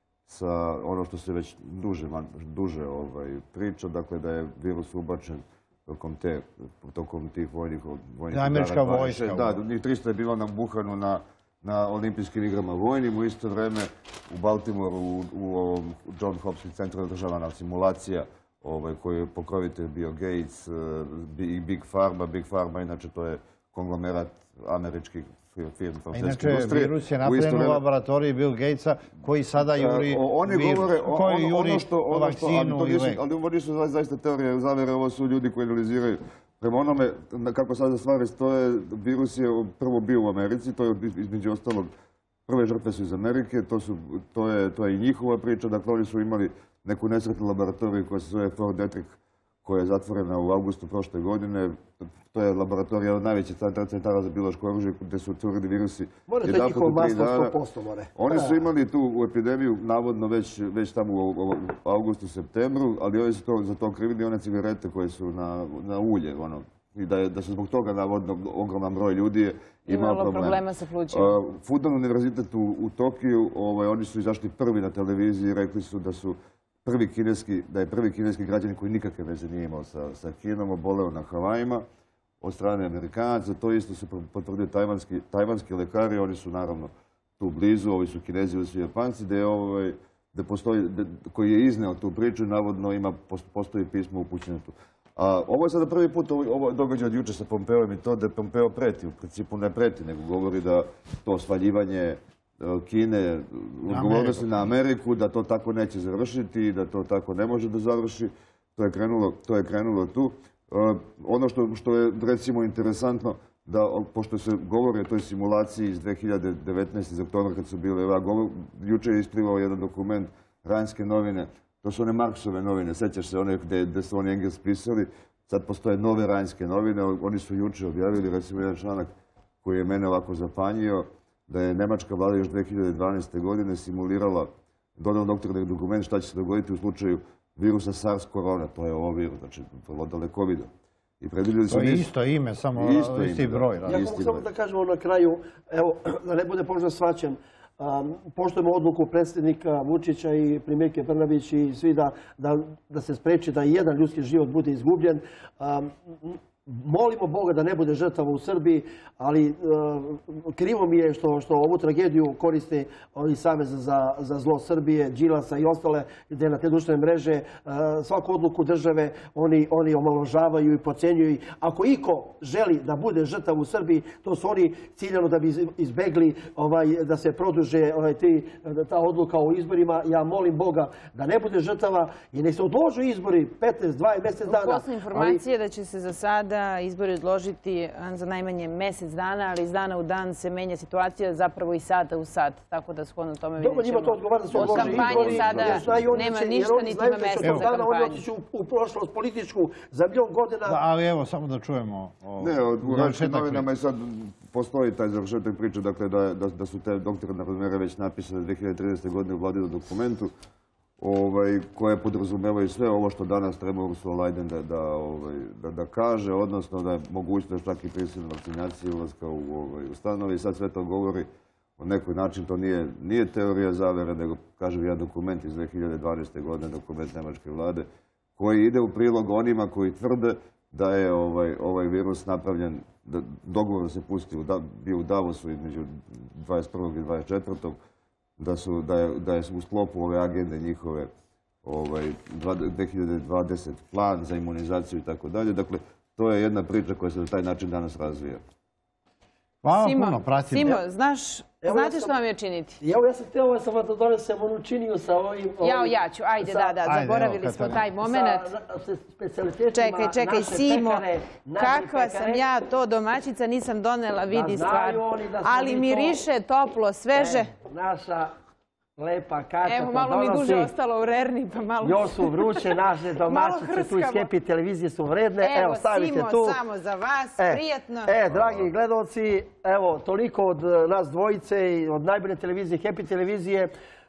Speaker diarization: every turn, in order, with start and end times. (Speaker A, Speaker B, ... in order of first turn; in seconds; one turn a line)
Speaker A: 0.3-27.8
Speaker B: 8.3-9.6
Speaker B: 26.1-33.2
Speaker A: 29.7-41.9
Speaker A: 42.5-57.6
Speaker C: 56.3-58.6
Speaker A: 58.1-81.8
Speaker D: 69.9-71.4
Speaker A: 82.4-129.1
Speaker B: 103.9-104.7
Speaker A: 129.6-140.7
Speaker A: 141.2-142.1
Speaker B: 141.7-144.0
Speaker A: 142.7-144.5
Speaker C: 143.8-185.4
Speaker D: 184.4-198.2
Speaker C: 193.6-200.8
Speaker A: 194.5-196.2
Speaker B: 197.4-197.7
Speaker B: 200.7-203.7
Speaker A: 202.4-210.3
Speaker A: 211.0-221.3
Speaker A: 221.8-227.9
Speaker A: 228.4-237.8
Speaker A: 238.4-241.1
Speaker A: 241.6-248.4
Speaker B: 249.6-250.8
Speaker D: 249.7-252.8
Speaker C: 251.6-252.2
Speaker C: 252.8-256.8
Speaker D: 255.6-258.5
Speaker B: 256.9-257.8
Speaker C: 258.0-262.5
Speaker D: 259.7-267.5
Speaker C: 264.3-266.2
Speaker C: 267.1-268.3
Speaker C: 269.0-270.7
Speaker D: 269.6-274.3
Speaker C: 271.8-276.6
Speaker D: 275.4-278.2
Speaker C: 277.4-283.7
Speaker A: 278.3-278.7